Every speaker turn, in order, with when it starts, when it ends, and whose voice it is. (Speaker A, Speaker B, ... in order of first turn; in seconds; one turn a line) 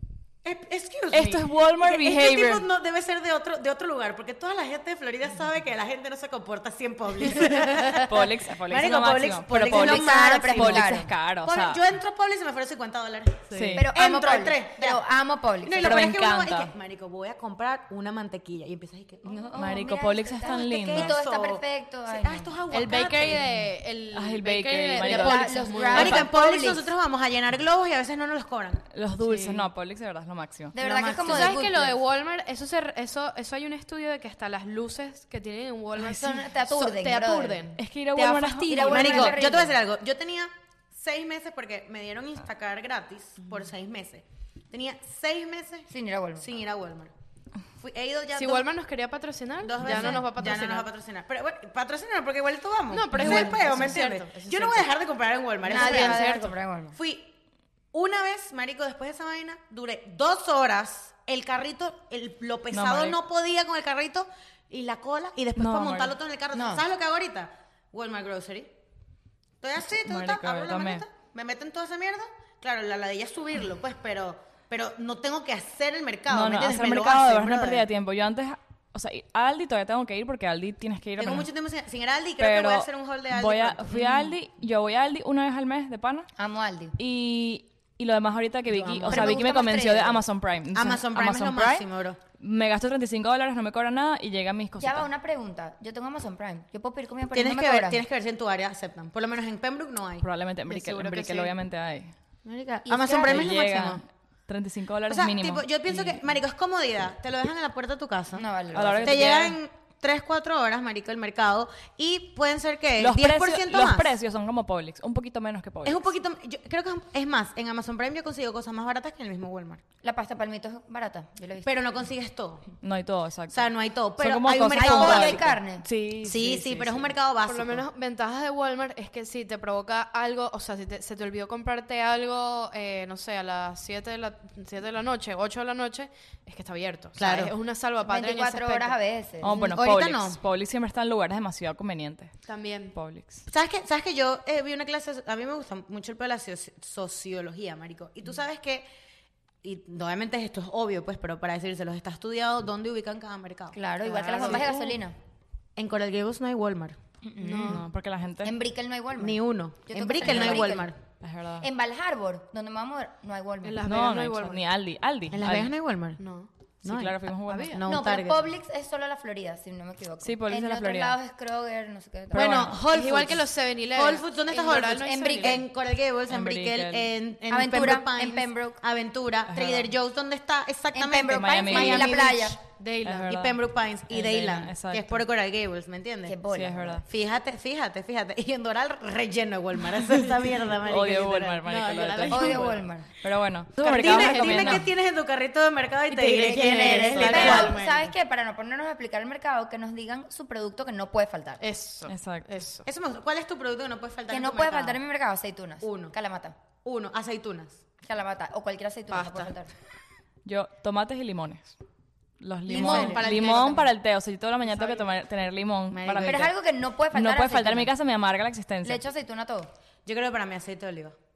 Speaker A: 0.4-15.0
Speaker B: 1.1-2.7
Speaker B: 8.0-11.8
Speaker C: 9.5-11.1
Speaker B: 13.5-13.9
Speaker C: 13.8-16.1
Speaker A: 15.6-19.6
Speaker B: 15.8-16.7
Speaker C: 19.2-22.6
Speaker B: 19.5-21.2
Speaker A: 20.4-23.5
Speaker D: 22.7-26.3
Speaker B: 24.1-26.3
Speaker C: 25.0-26.9
Speaker A: 25.9-28.9
Speaker B: 28.9-30.8
Speaker D: 29.2-29.7
Speaker C: 30.7-31.6
Speaker A: 30.8-32.0
Speaker D: 31.2-39.4
Speaker C: 36.0-37.6
Speaker B: 37.8-39.4
Speaker C: 38.7-39.8
Speaker A: 38.9-47.1
Speaker C: 45.9-46.5
Speaker A: 47.8-48.7
Speaker D: 48.4-50.9
Speaker A: 49.6-57.4
Speaker D: 52.9-54.9
Speaker D: 55.6-56.5
Speaker C: 55.7-57.0
Speaker A: 57.9-68.7
Speaker B: 62.7-63.2
Speaker B: 65.6-66.2
Speaker C: 66.5-66.8
Speaker A: 69.6-77.8
Speaker B: 69.8-71.0
Speaker B: 76.3-81.5
Speaker A: 81.2-84.3
Speaker B: 82.4-86.3
Speaker C: 86.4-87.0
Speaker B: 87.0-91.9
Speaker A: 88.7-89.5
Speaker C: 89.1-90.2
Speaker A: 90.7-92.2
Speaker B: 92.4-95.1
Speaker C: 94.8-98.0
Speaker A: 97.3-100.3
Speaker B: 100.2-102.1
Speaker D: 100.7-101.5
Speaker C: 102.5-103.5
Speaker A: 102.8-104.0
Speaker B: 103.1-106.2
Speaker A: 105.1-108.5
Speaker C: 108.3-109.3
Speaker B: 108.7-109.6
Speaker A: 109.0-114.1
Speaker B: 113.0-116.1
Speaker A: 115.8-119.8
Speaker C: 120.0-121.7
Speaker A: 121.7-122.7
Speaker B: 122.8-127.1
Speaker A: 123.5-125.6
Speaker C: 124.7-125.9
Speaker A: 126.2-127.8
Speaker D: 127.5-139.0
Speaker A: 137.2-137.5
Speaker C: 138.1-139.6
Speaker B: 139.4-142.3
Speaker A: 139.6-140.4
Speaker D: 142.5-142.9
Speaker B: 142.9-143.5
Speaker A: 143.5-148.9
Speaker A: 149.6-154.8
Speaker C: 153.7-155.2
Speaker D: 154.1-154.9
Speaker A: 155.8-157.0
Speaker C: 157.2-157.8
Speaker D: 157.4-157.8
Speaker B: 157.6-158.5
Speaker C: 158.4-160.9
Speaker A: 159.2-161.0
Speaker B: 160.2-160.6
Speaker B: 161.2-161.7
Speaker C: 161.6-163.8
Speaker D: 163.6-164.6
Speaker B: 163.8-165.7
Speaker A: 165.3-166.2
Speaker D: 166.2-166.5
Speaker B: 166.8-167.8
Speaker A: 166.8-167.2
Speaker D: 167.5-167.8
Speaker A: 167.7-168.5
Speaker C: 167.9-172.7
Speaker B: 170.2-171.2
Speaker A: 172.3-182.5
Speaker B: 172.4-172.8
Speaker D: 172.4-175.6
Speaker C: 174.7-175.6
Speaker B: 176.3-177.1
Speaker C: 177.5-178.8
Speaker B: 179.5-179.9
Speaker C: 180.9-182.6
Speaker B: 181.3-182.3
Speaker D: 181.7-183.4
Speaker B: 183.1-185.2
Speaker A: 183.3-186.4
Speaker C: 186.3-187.0
Speaker B: 186.5-187.0
Speaker A: 187.0-192.8
Speaker B: 190.8-194.9
Speaker C: 192.3-193.1
Speaker D: 192.4-192.8
Speaker A: 193.8-198.0
Speaker D: 193.8-194.8
Speaker D: 196.1-198.1
Speaker C: 196.3-201.6
Speaker B: 197.1-197.7
Speaker D: 201.6-202.9
Speaker B: 202.1-202.6
Speaker A: 202.8-205.0
Speaker C: 204.3-206.6
Speaker A: 205.8-206.2
Speaker A: 206.8-207.9
Speaker C: 208.0-209.7
Speaker D: 209.1-209.5
Speaker B: 210.4-211.8
Speaker B: 212.4-216.5
Speaker A: 212.7-213.9
Speaker C: 212.7-213.3
Speaker A: 215.9-216.5
Speaker C: 216.2-217.9
Speaker B: 217.1-219.0
Speaker C: 218.8-219.7
Speaker A: 220.1-221.2